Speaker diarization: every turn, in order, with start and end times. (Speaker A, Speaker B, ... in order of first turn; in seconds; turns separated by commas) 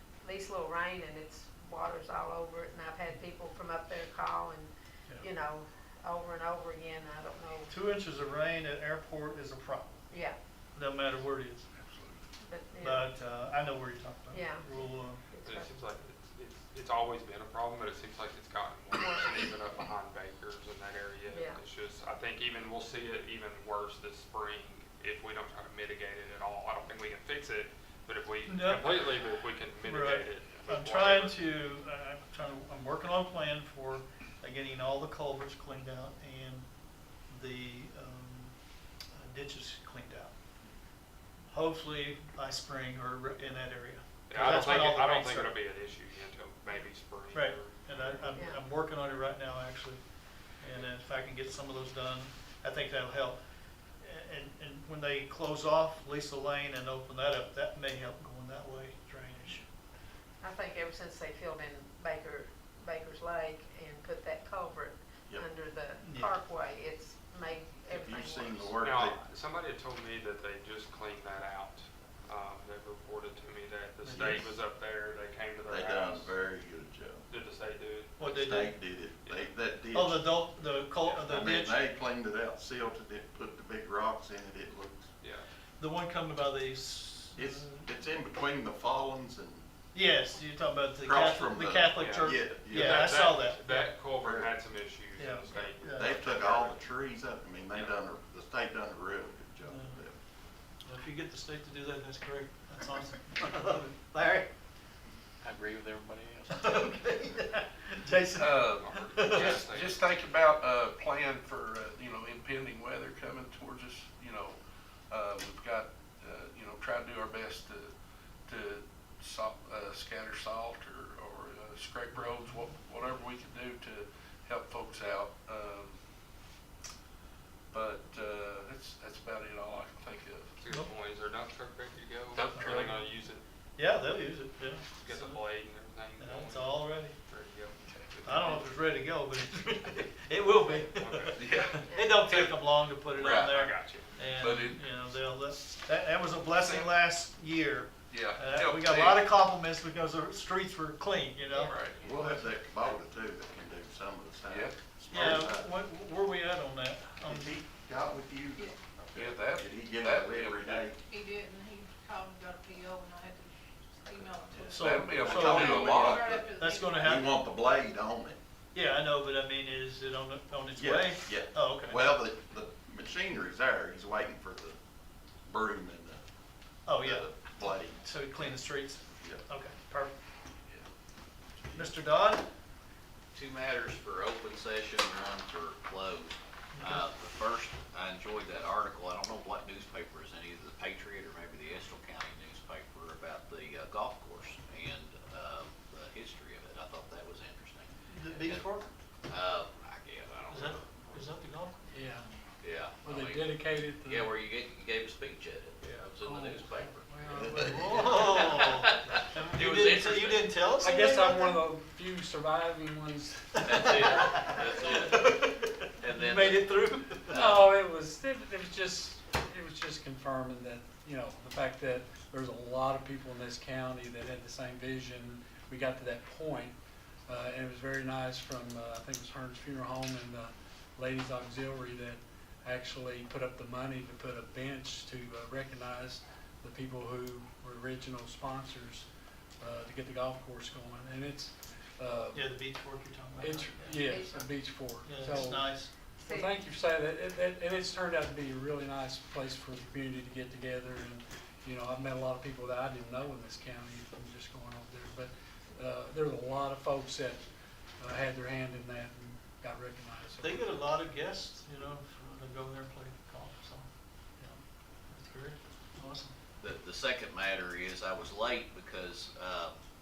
Speaker A: 0.2-7.8, Speaker B: 7.7-10.0, Speaker A: 10.1-10.4, Speaker B: 10.8-11.7, Speaker C: 11.7-12.2, Speaker A: 12.4-13.1, Speaker B: 12.8-15.3, Speaker A: 14.3-15.8, Speaker D: 15.4-31.4, Speaker A: 18.9-19.4, Speaker A: 21.3-21.6, Speaker B: 28.5-29.1, Speaker B: 29.8-36.7, Speaker B: 37.2-40.3, Speaker B: 41.5-45.5, Speaker D: 44.3-48.5, Speaker B: 47.3-53.4, Speaker A: 48.3-48.6, Speaker B: 54.0-59.7, Speaker A: 60.4-68.8, Speaker B: 66.0-66.3, Speaker E: 67.9-69.2, Speaker D: 68.8-76.3, Speaker B: 74.0-74.6, Speaker E: 75.7-77.3, Speaker D: 77.3-78.7, Speaker B: 78.2-78.8, Speaker E: 78.3-80.4, Speaker D: 79.2-79.5, Speaker B: 79.9-81.8, Speaker D: 81.0-81.4, Speaker E: 81.2-85.1, Speaker D: 85.2-85.5, Speaker B: 85.8-87.9, Speaker E: 87.4-89.7, Speaker B: 89.9-94.0, Speaker E: 91.0-93.5, Speaker D: 92.0-96.8, Speaker E: 94.2-94.5, Speaker B: 95.2-96.2, Speaker E: 96.0-100.2, Speaker B: 99.6-100.1, Speaker B: 100.8-104.5, Speaker C: 105.4-106.5, Speaker B: 106.5-109.7, Speaker C: 108.3-114.6, Speaker D: 108.7-110.1, Speaker C: 115.1-117.9, Speaker C: 118.5-126.0, Speaker C: 127.7-130.6, Speaker D: 130.6-133.5, Speaker C: 132.3-133.0, Speaker B: 132.4-133.0, Speaker B: 133.8-135.4, Speaker D: 135.0-138.7, Speaker B: 136.2-137.2, Speaker C: 137.8-138.2, Speaker B: 138.3-152.4, Speaker D: 140.4-141.8, Speaker C: 141.3-141.9, Speaker D: 142.3-142.5, Speaker C: 143.2-143.6, Speaker D: 143.5-144.3, Speaker C: 144.4-145.1, Speaker C: 146.5-147.0, Speaker C: 148.1-149.4, Speaker C: 151.7-152.1, Speaker E: 152.0-155.7, Speaker C: 154.5-155.5, Speaker B: 155.1-157.6, Speaker E: 157.2-161.0, Speaker C: 159.1-160.9, Speaker F: 161.1-163.4, Speaker F: 164.0-164.9, Speaker E: 164.5-168.4, Speaker B: 164.7-165.7, Speaker C: 164.9-166.4, Speaker F: 165.6-167.0, Speaker B: 166.5-167.2, Speaker B: 168.7-172.2, Speaker E: 170.8-174.8, Speaker E: 175.5-176.2, Speaker B: 176.9-177.3, Speaker E: 177.0-178.1, Speaker B: 177.9-180.1, Speaker E: 179.1-179.4, Speaker C: 181.6-181.9, Speaker B: 181.7-182.4, Speaker G: 183.3-198.7, Speaker B: 186.8-187.1, Speaker B: 198.1-198.9, Speaker G: 199.3-201.2, Speaker B: 200.5-201.8, Speaker H: 201.9-202.3, Speaker G: 202.6-207.1, Speaker H: 202.9-204.4, Speaker H: 206.2-208.3, Speaker E: 207.3-207.7, Speaker B: 207.6-211.7, Speaker G: 208.1-210.6, Speaker H: 210.7-214.4, Speaker G: 213.6-215.4, Speaker B: 213.7-217.5, Speaker G: 216.0-217.8, Speaker H: 217.3-226.8, Speaker H: 227.3-239.1, Speaker H: 239.6-242.6, Speaker B: 242.3-245.9, Speaker H: 243.4-257.4, Speaker A: 244.0-244.3, Speaker A: 246.2-246.6, Speaker H: 258.0-260.9, Speaker B: 260.4-266.3, Speaker G: 266.6-269.8